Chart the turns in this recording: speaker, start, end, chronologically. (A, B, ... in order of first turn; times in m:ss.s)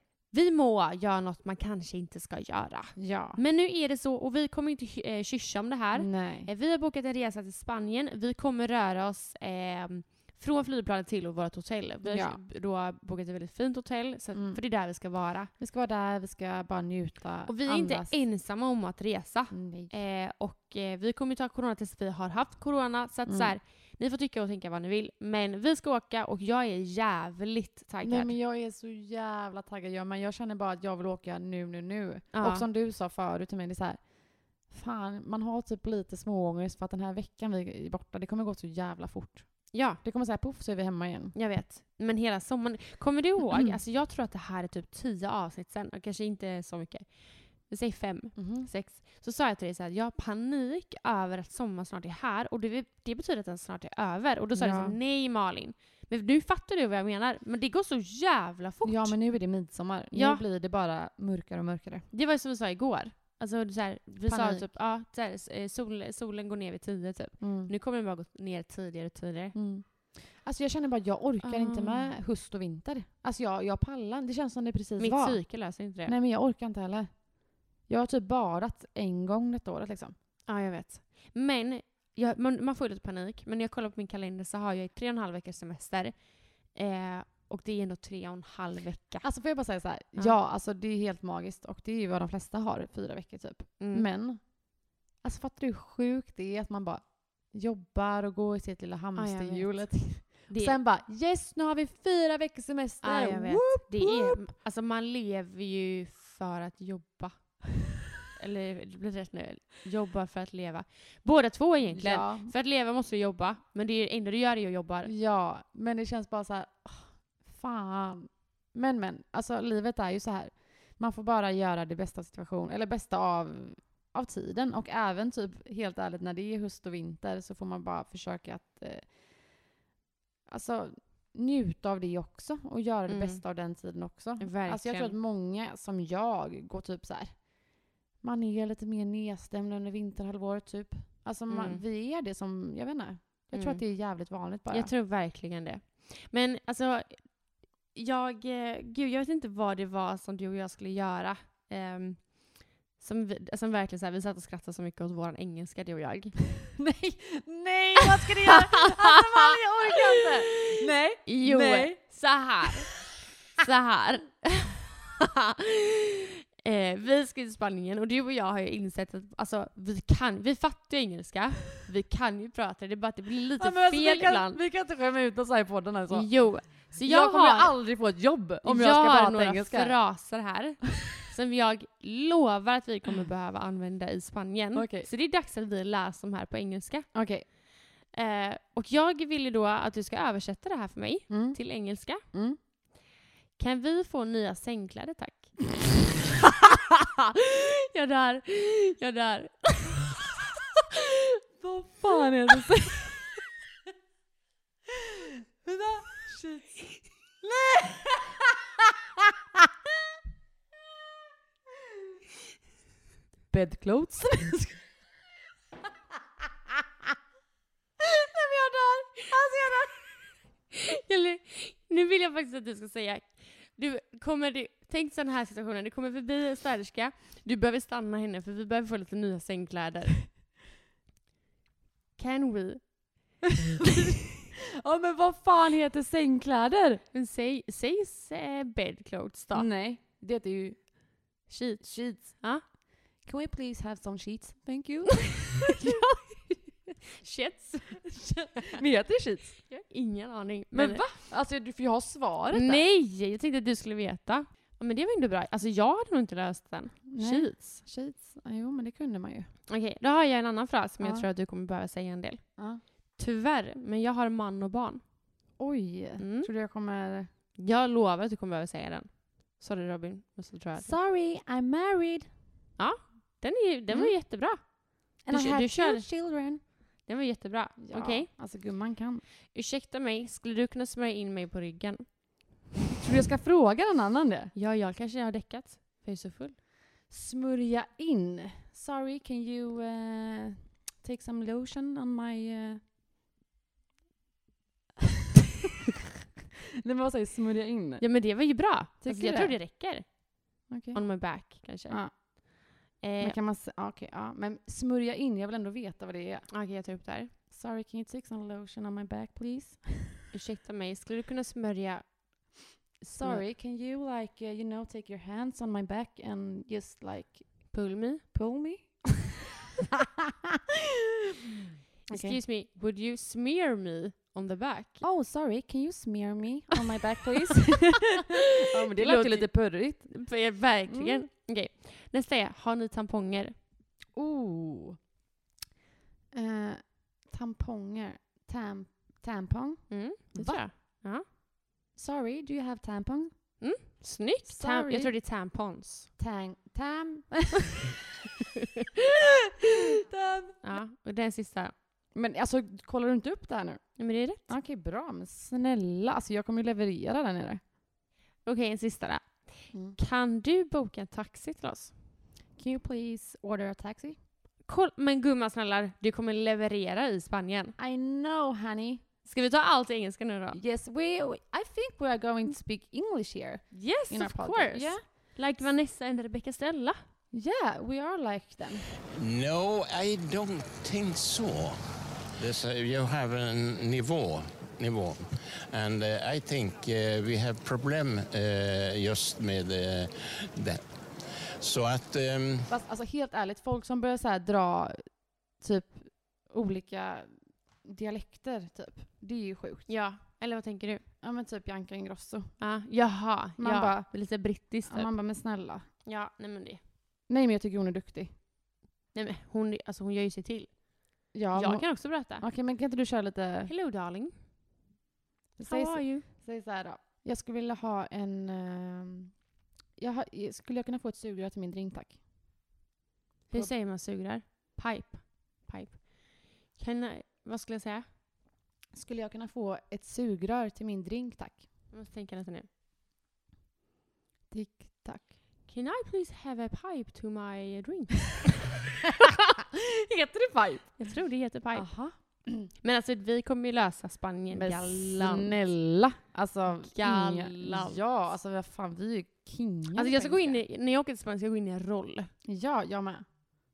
0:00.3-0:15.5 A
0:03.0-0:03.4 B
0:05.9-0:06.5 B
0:12.0-0:12.4 B
0:14.3-0:14.6 B
0:15.6-0:18.2 B
0:17.4-0:28.4 A
0:19.5-0:19.9 B
0:23.3-0:23.5 B
0:28.0-0:41.4 B
0:32.3-0:32.7 A
0:39.7-0:40.0 A
0:41.3-0:59.2 A
0:48.4-0:48.7 B
0:54.5-0:55.0 B
0:58.8-1:02.1 B
1:00.1-1:00.4 A
1:02.1-1:09.6 A
1:04.2-1:04.7 B
1:07.4-1:07.7 B
1:09.5-1:20.1 B
1:11.4-1:12.1 A
1:15.0-1:16.1 A
1:20.4-1:29.3 A
1:29.2-1:44.4 B
1:33.8-1:34.1 A
1:39.2-1:40.8 A
1:43.0-1:47.6 A
1:48.3-1:55.1 A
1:51.9-1:52.5 B
1:55.0-2:09.6 B
2:10.5-2:24.9 B
2:13.1-2:13.4 A
2:14.4-2:15.2 A
2:21.5-2:21.8 A
2:23.5-2:23.8 A
2:24.7-2:36.6 A
2:36.8-2:42.0 B
2:38.2-2:39.6 A
2:40.1-2:43.0 A
2:42.6-2:42.9 B
2:43.6-2:54.6 A
2:53.6-2:56.3 B
2:56.1-2:57.8 A
2:56.9-3:00.0 B
2:58.6-3:07.5 A
3:04.7-3:05.1 B
3:07.1-3:07.5 B
3:08.1-3:12.2 A
3:11.3-3:11.6 B
3:12.3-3:12.6 B
3:13.6-3:15.7 A
3:17.4-3:20.2 A
3:21.6-3:23.4 B
3:25.6-3:26.8 B
3:27.4-3:28.4 B
3:33.5-3:34.8 B
3:38.0-3:39.9 B
3:40.7-3:50.2 A
3:52.2-3:53.3 A
3:53.8-3:54.1 B
3:54.8-3:57.0 B
3:57.1-3:59.7 A
3:59.5-4:02.7 B
4:01.5-4:02.6 A
4:03.2-4:06.0 B
4:05.7-4:06.2 A
4:07.2-4:08.7 A
4:08.2-4:09.6 B
4:09.7-4:11.2 A
4:10.7-4:12.8 B
4:12.5-4:17.8 A
4:17.1-4:19.5 B
4:19.7-4:22.4 A
4:21.0-4:21.3 B
4:22.6-4:22.8 B
4:23.1-4:25.0 A
4:25.6-4:27.3 B
4:26.2-4:26.5 A
4:27.6-4:30.9 A
4:30.8-4:32.3 B
4:32.8-4:36.1 A
4:33.9-4:34.1 B
4:35.2-4:36.6 B
4:37.0-4:38.3 A
4:37.8-4:39.2 B
4:39.5-4:42.4 A
4:43.0-4:44.5 B
4:44.5-4:46.6 A
4:47.1-4:52.8 B
4:56.8-4:58.0 B
4:58.0-5:02.5 A
4:59.0-4:59.6 B
5:00.7-5:01.0 B
5:01.9-5:02.1 B
5:03.0-5:03.4 A
5:03.2-5:06.5 B
5:06.5-5:07.3 A
5:07.5-5:10.2 B
5:10.3-5:13.4 A
5:13.1-5:17.7 B
5:17.7-5:18.2 A
5:18.3-5:19.4 B
5:22.1-5:25.0 A
5:22.1-5:22.4 B
5:25.0-5:30.3 B
5:29.0-5:33.5 A
5:30.9-5:31.3 B
5:34.1-5:35.0 B
5:36.3-5:40.6 B
5:39.9-5:41.2 A
5:41.9-5:43.3 B
5:43.6-5:46.1 A
5:44.4-5:45.1 B
5:46.2-5:47.9 B
5:49.6-5:50.8 B
5:50.6-5:51.7 A
5:52.1-5:57.6 B
5:54.0-5:54.5 A
5:58.4-6:01.9 A
5:59.7-6:00.0 B
6:02.6-6:04.2 B
6:04.6-6:07.7 A
6:07.8-6:09.0 B
6:09.2-6:10.6 A
6:10.5-6:15.7 B
6:13.7-6:17.0 A
6:17.3-6:18.9 B
6:19.1-6:21.8 C
6:22.4-6:30.9 C
6:31.6-6:32.7 C
6:32.7-6:39.9 B
6:39.9-6:41.0 A
6:41.2-6:42.6 B
6:42.6-6:45.1 A
6:43.6-6:45.9 B
6:46.0-6:46.8 A
6:47.3-6:48.4 B
6:49.1-6:52.4 A
6:51.3-6:53.7 B
6:53.7-6:54.3 A
6:55.6-6:59.4 B
6:55.6-6:56.2 A
7:00.0-7:02.2 B
7:03.5-7:08.1 A
7:08.9-7:11.7 B
7:11.9-7:12.7 A
7:14.5-7:15.4 B
7:15.6-7:18.5 A
7:19.2-7:21.0 B
7:21.0-7:21.9 A
7:21.7-7:22.7 B
7:22.8-7:25.6 A
7:24.5-7:30.6 B
7:26.8-7:28.0 A
7:29.9-7:32.3 A
7:32.4-7:33.2 B